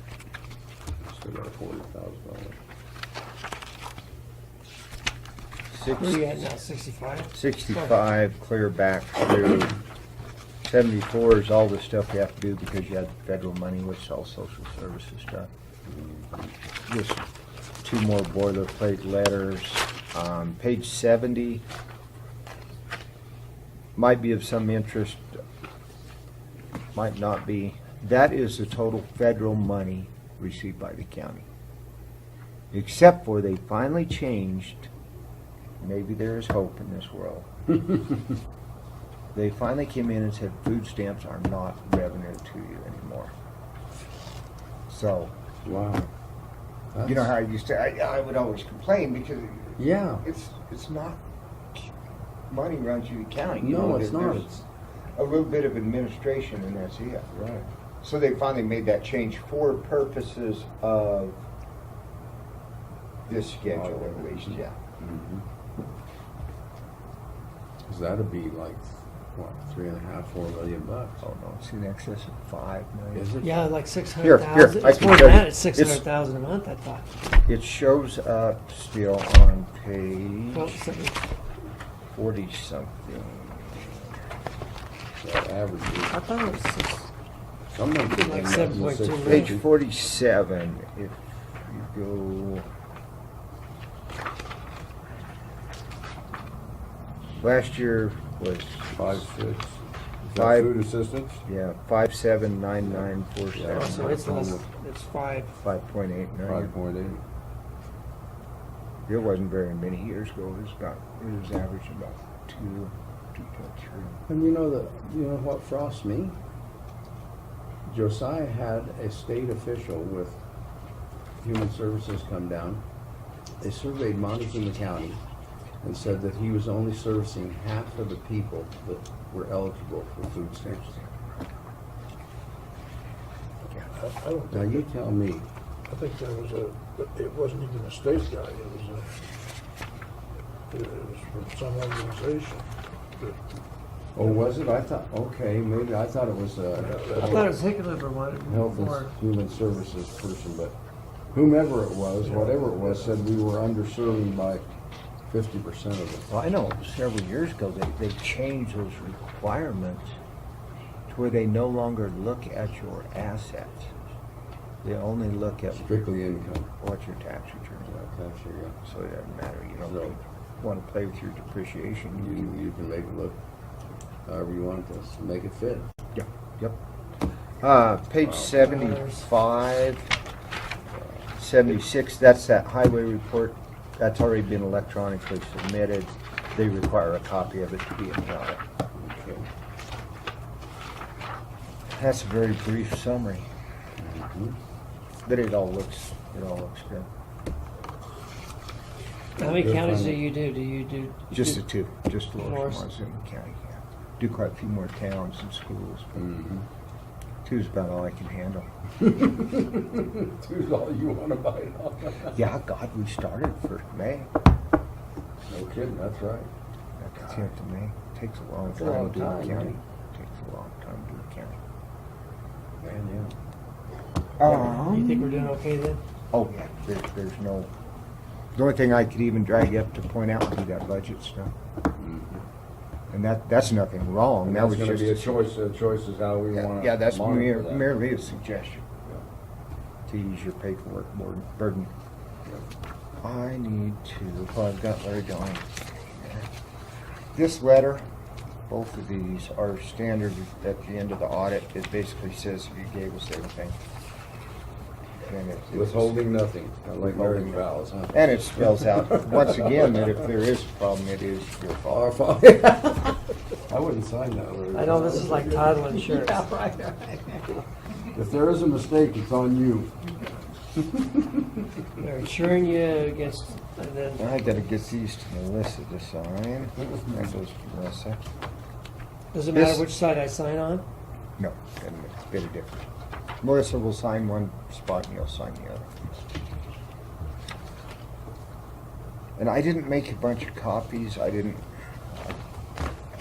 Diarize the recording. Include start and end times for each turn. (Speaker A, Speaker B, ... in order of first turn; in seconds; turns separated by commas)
Speaker A: 1.0-2.6, Speaker B: 5.7-6.5, Speaker C: 6.0-8.0, Speaker B: 7.3-9.8, Speaker B: 10.6-15.5, Speaker A: 15.9-16.5, Speaker B: 16.9-17.2, Speaker B: 17.8-21.6, Speaker B: 24.0-25.4, Speaker B: 26.9-31.5, Speaker B: 32.7-34.9, Speaker B: 35.8-37.5, Speaker B: 39.3-43.3, Speaker B: 44.9-45.3, Speaker A: 45.6-46.1, Speaker A: 46.9-47.3, Speaker B: 47.0-51.2, Speaker A: 49.8-50.2, Speaker B: 51.7-54.6, Speaker A: 53.6-54.5, Speaker B: 55.2-57.3, Speaker A: 57.3-57.7, Speaker B: 58.0-61.4, Speaker B: 63.3-64.8, Speaker A: 63.6-65.5, Speaker A: 67.8-71.2, Speaker B: 71.2-73.3, Speaker A: 73.2-73.5, Speaker C: 73.4-77.1, Speaker B: 74.2-76.0, Speaker B: 77.5-80.8, Speaker C: 80.5-81.2, Speaker B: 82.1-84.1, Speaker A: 85.2-86.2, Speaker C: 86.1-87.1, Speaker A: 87.7-89.7, Speaker C: 88.1-89.6, Speaker B: 89.2-92.7, Speaker B: 97.4-99.3, Speaker A: 98.9-101.4, Speaker B: 100.3-100.7, Speaker B: 101.5-104.5, Speaker A: 102.8-104.7, Speaker C: 103.7-105.5, Speaker B: 105.6-106.7, Speaker A: 106.4-107.2, Speaker B: 109.1-114.2, Speaker A: 114.3-116.4, Speaker A: 117.9-120.4, Speaker A: 121.4-122.8, Speaker A: 123.6-125.2, Speaker A: 125.8-130.9, Speaker B: 130.6-131.2, Speaker D: 133.9-134.8, Speaker A: 134.5-135.5, Speaker D: 135.9-139.2, Speaker D: 140.7-142.7, Speaker A: 144.2-147.6, Speaker D: 146.8-147.5, Speaker C: 147.2-149.1, Speaker A: 148.5-150.8, Speaker A: 151.3-154.7, Speaker D: 152.3-152.9, Speaker A: 155.3-156.3, Speaker B: 156.3-160.2, Speaker B: 161.1-163.9, Speaker B: 164.8-166.1, Speaker A: 165.7-166.7, Speaker B: 166.8-167.9, Speaker A: 167.9-168.8, Speaker B: 168.8-172.7, Speaker A: 169.8-170.2, Speaker A: 172.2-173.4, Speaker A: 174.3-175.9, Speaker B: 176.1-176.8, Speaker B: 177.6-180.1, Speaker A: 178.2-178.6, Speaker C: 178.6-179.3, Speaker B: 181.4-188.6, Speaker A: 188.9-189.5, Speaker B: 191.9-193.5, Speaker A: 194.0-194.6, Speaker B: 195.2-197.1, Speaker C: 199.4-201.6, Speaker A: 199.4-200.3, Speaker B: 201.3-206.3, Speaker C: 202.4-202.9, Speaker A: 206.2-206.7, Speaker B: 207.4-208.7, Speaker A: 209.0-212.4, Speaker B: 212.3-214.3, Speaker A: 215.5-216.5, Speaker B: 217.0-221.6, Speaker A: 217.2-217.5, Speaker A: 218.7-219.8, Speaker A: 222.8-223.3, Speaker B: 224.4-225.5, Speaker C: 224.4-226.0, Speaker B: 226.3-227.7, Speaker B: 228.6-231.5, Speaker A: 231.9-232.4, Speaker B: 233.1-235.5, Speaker A: 234.4-238.3, Speaker B: 236.5-238.9, Speaker B: 240.1-241.9, Speaker B: 243.2-246.5, Speaker B: 247.3-248.1, Speaker B: 248.7-253.8, Speaker B: 255.2-256.2, Speaker A: 255.7-260.1, Speaker B: 256.9-262.1, Speaker A: 261.9-267.6, Speaker C: 264.7-266.5, Speaker A: 268.1-270.0, Speaker A: 270.8-271.4, Speaker C: 272.0-274.6, Speaker B: 274.2-278.2, Speaker A: 276.8-277.3, Speaker C: 279.3-280.9, Speaker B: 279.5-279.9, Speaker B: 281.4-282.9, Speaker B: 283.4-286.0, Speaker B: 289.4-292.4